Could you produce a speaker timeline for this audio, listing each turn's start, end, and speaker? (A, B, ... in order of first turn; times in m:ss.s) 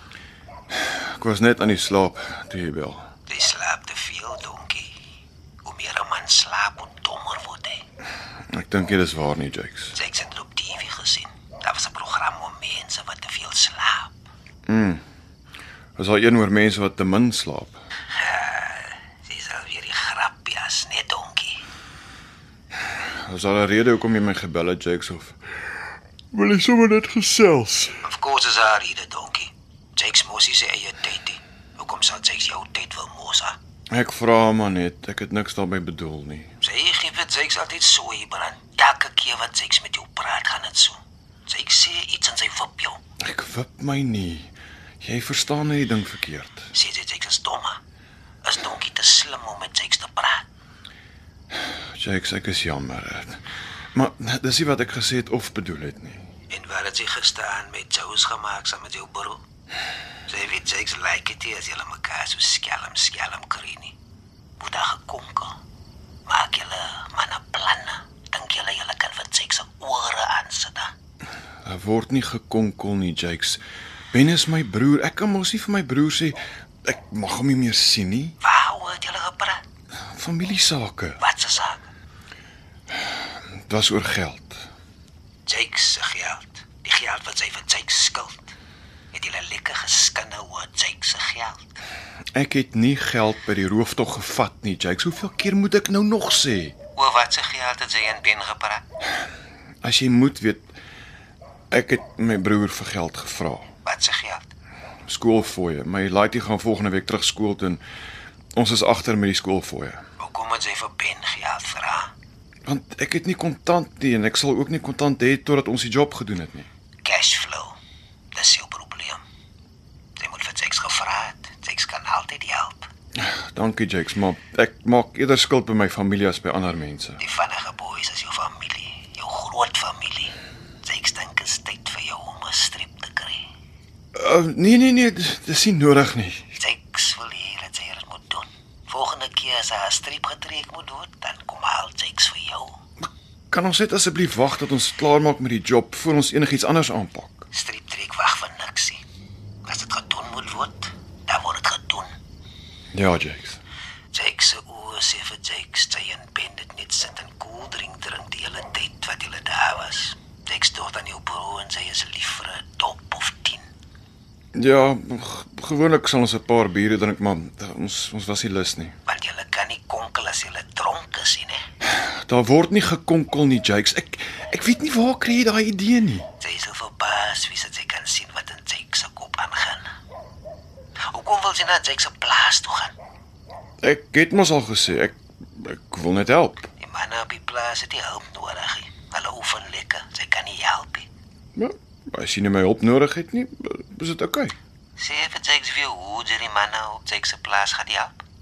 0:00.7-0:03.1 A
0:03.3-0:04.9 B
0:05.6-0:07.8 B
0:08.5-0:09.9 A
0:09.9-0:14.2 B
0:14.7-0:15.0 A
0:16.0-0:17.8 A
0:18.1-0:21.6 B
0:23.2-0:25.4 A
0:26.3-0:28.0 A
0:28.0-0:33.6 B
0:33.9-0:36.5 A
0:36.6-0:43.0 B
0:43.2-0:46.6 A
0:46.7-0:47.8 B
0:48.4-0:50.4 B
0:52.0-0:53.4 A
0:53.9-0:56.2 A
0:56.5-0:59.4 B
1:00.3-1:03.9 B
1:04.6-1:05.6 B
1:06.3-1:10.9 B
1:11.6-1:13.6 A
1:14.1-1:18.3 A
1:18.4-1:19.6 B
1:20.1-1:21.2 A
1:21.2-1:21.9 B
1:23.1-1:24.6 A
1:25.4-1:28.6 B
1:29.1-1:31.8 B
1:32.3-1:36.8 A
1:37.0-1:38.8 B
1:39.8-1:40.7 A
1:41.7-1:43.7 A
1:43.8-1:44.5 B
1:45.1-1:47.8 A
1:48.6-1:50.0 A
1:50.2-1:52.1 B
1:52.7-1:56.7 A
1:57.0-1:57.8 B
1:58.3-1:59.2 B
2:00.2-2:02.9 B
2:03.2-2:07.2 A
2:07.2-2:13.4 B
2:14.2-2:16.5 A
2:16.6-2:22.8 B
2:23.0-2:27.4 A
2:27.5-2:29.0 B
2:29.6-2:32.1 B
2:32.9-2:33.6 A
2:34.1-2:43.6 B
2:44.5-2:48.9 A
2:49.0-2:51.6 B
2:51.9-2:56.3 A
2:56.4-2:59.8 B
3:01.1-3:02.9 B
3:03.8-3:06.7 A
3:06.8-3:11.1 B
3:11.6-3:14.5 A
3:15.0-3:18.2 B